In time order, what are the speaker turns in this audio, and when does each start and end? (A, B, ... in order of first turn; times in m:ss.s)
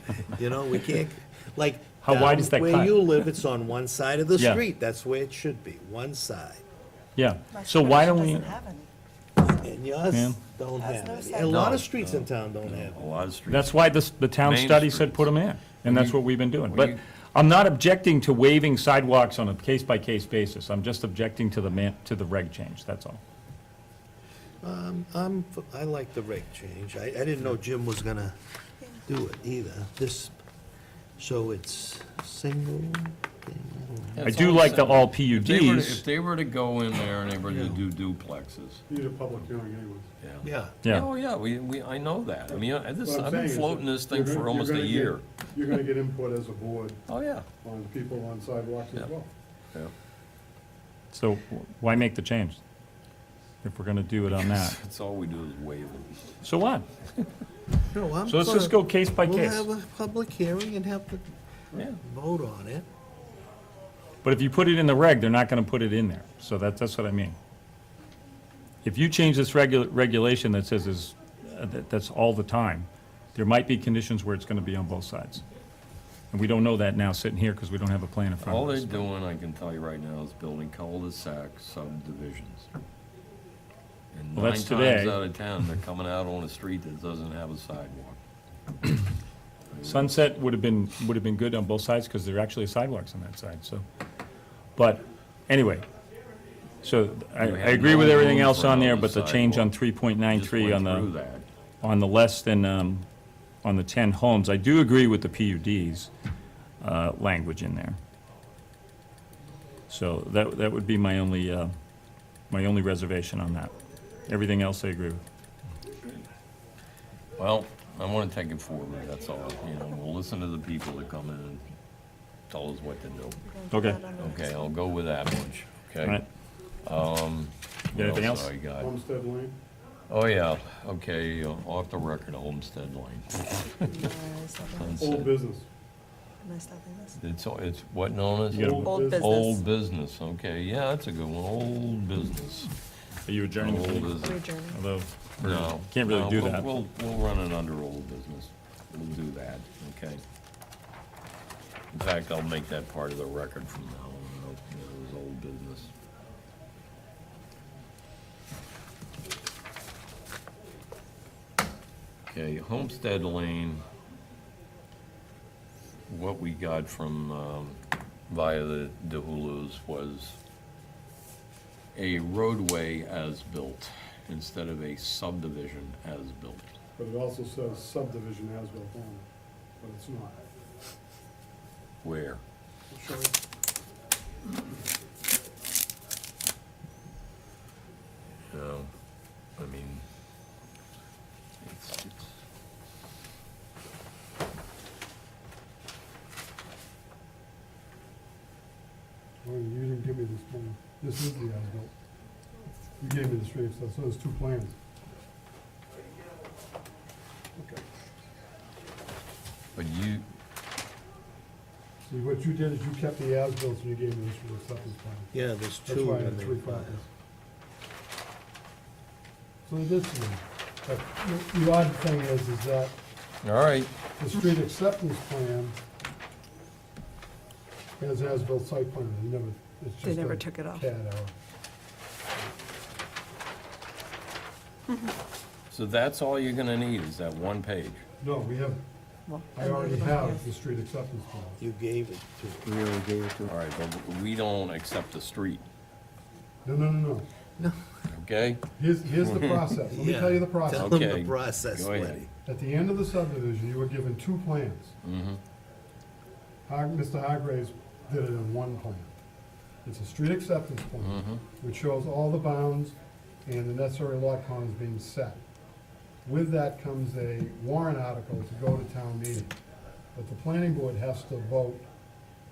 0:00.3-0:06.6 A
0:02.0-0:03.0 B
0:04.4-0:04.6 B
0:07.2-0:08.6 B
0:07.5-0:08.9 C
0:09.4-0:13.0 A
0:10.1-0:10.4 B
0:10.8-0:11.8 C
0:11.4-0:15.3 D
0:13.5-0:23.2 B
0:15.8-0:17.0 D
0:24.6-0:28.4 A
0:29.0-0:30.3 A
0:31.2-0:34.3 A
0:34.2-0:38.8 D
0:34.2-0:36.0 B
0:37.4-0:37.8 A
0:38.9-0:40.1 E
0:40.2-0:45.2 D
0:40.4-0:40.7 A
0:42.5-0:47.0 E
0:47.1-0:47.4 D
0:47.6-0:49.3 E
0:51.1-0:52.6 B
0:53.6-0:54.8 B
0:54.4-0:56.4 D
0:56.4-0:56.8 B
0:57.9-1:01.3 A
0:58.3-0:59.6 B
1:02.0-1:02.8 A
1:04.2-1:07.4 B
1:08.8-1:15.4 B
1:16.3-1:19.1 B
1:18.4-1:22.7 D
1:24.1-1:28.2 D
1:24.3-1:25.2 B
1:29.7-1:30.2 D
1:29.8-1:33.8 B
1:34.8-1:35.8 B
1:36.8-1:41.1 B
1:37.4-1:39.7 D
1:40.3-1:41.4 D
1:41.8-1:43.0 B
1:43.6-1:46.1 B
1:46.8-1:48.0 B
1:49.9-1:51.7 B
1:52.5-1:53.7 B
1:54.3-1:55.2 B
1:57.4-2:01.6 D
2:02.5-2:03.4 D
2:03.4-2:04.8 C
2:03.7-2:04.1 B
2:04.1-2:06.2 D
2:06.8-2:08.9 D
2:07.9-2:08.5 B
2:08.8-2:09.6 E
2:10.1-2:13.9 D
2:13.7-2:15.0 C
2:14.7-2:15.4 D
2:15.0-2:15.7 E
2:16.4-2:17.2 C
2:17.2-2:22.7 D
2:18.5-2:19.4 E
2:18.5-2:18.8 B
2:18.8-2:19.6 C
2:23.2-2:26.7 B
2:23.6-2:24.4 D
2:24.2-2:24.8 C
2:25.4-2:30.2 D
2:31.9-2:35.9 D
2:42.3-2:43.8 D
2:46.1-2:50.4 D
2:51.9-2:56.7 D
2:57.0-2:59.3 E
2:59.8-3:00.4 E
3:02.0-3:02.4 D
3:02.9-3:03.4 E
3:08.5-3:08.9 D
3:09.6-3:10.0 D
3:11.6-3:12.3 D
3:19.4-3:21.9 E
3:23.0-3:24.8 E
3:27.6-3:27.8 E
3:29.7-3:30.3 D
3:32.0-3:35.3 E
3:35.3-3:37.0 A
3:35.8-3:37.1 E
3:39.6-3:42.9 E
3:43.4-3:43.9 D
3:44.2-3:45.8 E
3:48.0-3:51.3 E
3:50.0-3:50.9 C
3:54.9-3:55.1 C
3:55.7-3:58.0 D
3:58.2-3:58.8 E
3:59.3-4:00.4 C
3:59.5-4:01.6 E
4:01.6-4:03.5 A
4:03.4-4:05.6 D
4:06.6-4:07.3 E
4:08.1-4:08.6 D
4:08.8-4:11.0 E
4:09.2-4:09.7 D
4:09.9-4:12.3 A
4:10.7-4:12.3 D
4:12.4-4:14.9 E
4:15.0-4:15.4 D
4:16.7-4:19.1 E
4:19.8-4:22.9 E
4:21.0-4:21.4 D
4:23.4-4:25.4 E
4:26.2-4:29.6 E
4:30.1-4:31.8 E